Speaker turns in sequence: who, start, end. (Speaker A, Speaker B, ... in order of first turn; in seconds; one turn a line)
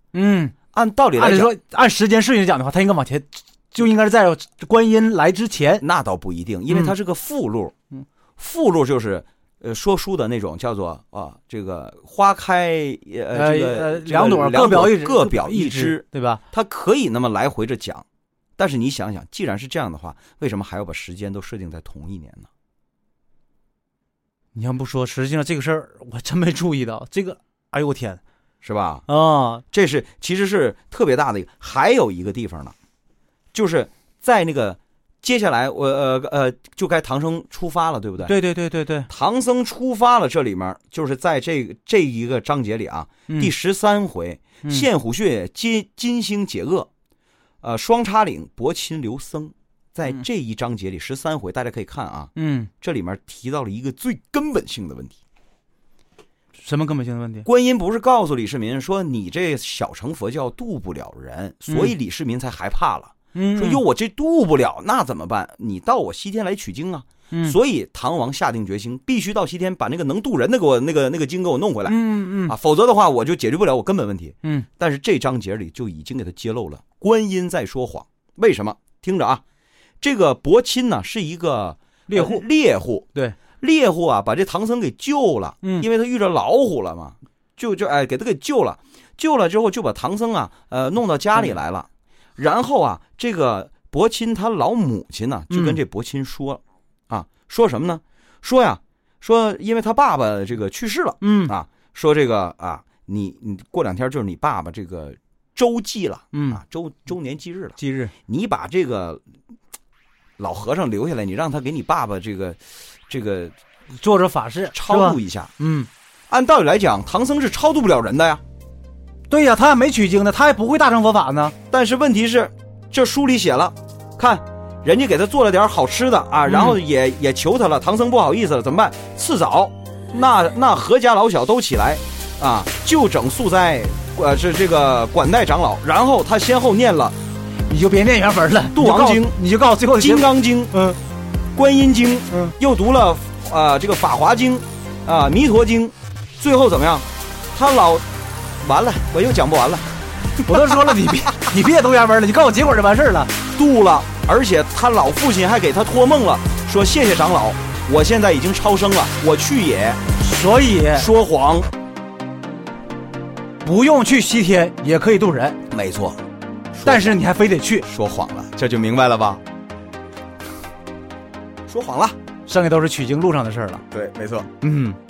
Speaker A: 0.1-0.6
Speaker B: 0.7-1.5
Speaker A: 1.2-5.8
Speaker B: 5.8-7.8
Speaker A: 6.7-6.9
Speaker B: 8.4-18.1
Speaker A: 13.3-16.4
Speaker B: 18.6-22.5
Speaker A: 24.5-28.2
Speaker B: 28.6-29.1
Speaker A: 29.1-29.6
Speaker B: 29.7-32.8
Speaker B: 33.5-38.4
Speaker A: 38.2-39.1
Speaker B: 39.1-46.9
Speaker B: 47.6-55.2
Speaker A: 52.4-52.7
Speaker A: 56.6-57.5
Speaker B: 57.5-79.4
Speaker A: 61.7-61.9
Speaker A: 63.3-63.8
Speaker A: 71.9-72.5
Speaker B: 80.0-83.1
Speaker A: 82.1-82.4
Speaker B: 83.6-109.2
Speaker A: 95.5-95.8
Speaker A: 101.2-101.5
Speaker A: 106.3-106.6
Speaker A: 107.8-108.1
Speaker B: 110.4-113.5
Speaker A: 114.0-115.9
Speaker B: 114.7-115.5
Speaker B: 116.3-118.4
Speaker A: 119.3-121.5
Speaker B: 121.7-137.2
Speaker A: 126.5-126.8
Speaker A: 137.7-141.0
Speaker B: 138.7-139.4
Speaker B: 140.0-140.8
Speaker B: 141.5-148.1
Speaker B: 148.6-149.9
Speaker A: 150.4-153.3
Speaker B: 153.5-160.0
Speaker A: 160.2-161.1
Speaker B: 160.9-161.7
Speaker A: 163.6-165.6
Speaker B: 165.7-166.2
Speaker B: 166.7-167.1
Speaker A: 166.8-167.9
Speaker B: 167.8-169.4
Speaker B: 171.7-172.2
Speaker A: 172.5-173.8
Speaker B: 173.9-174.5
Speaker A: 174.6-175.0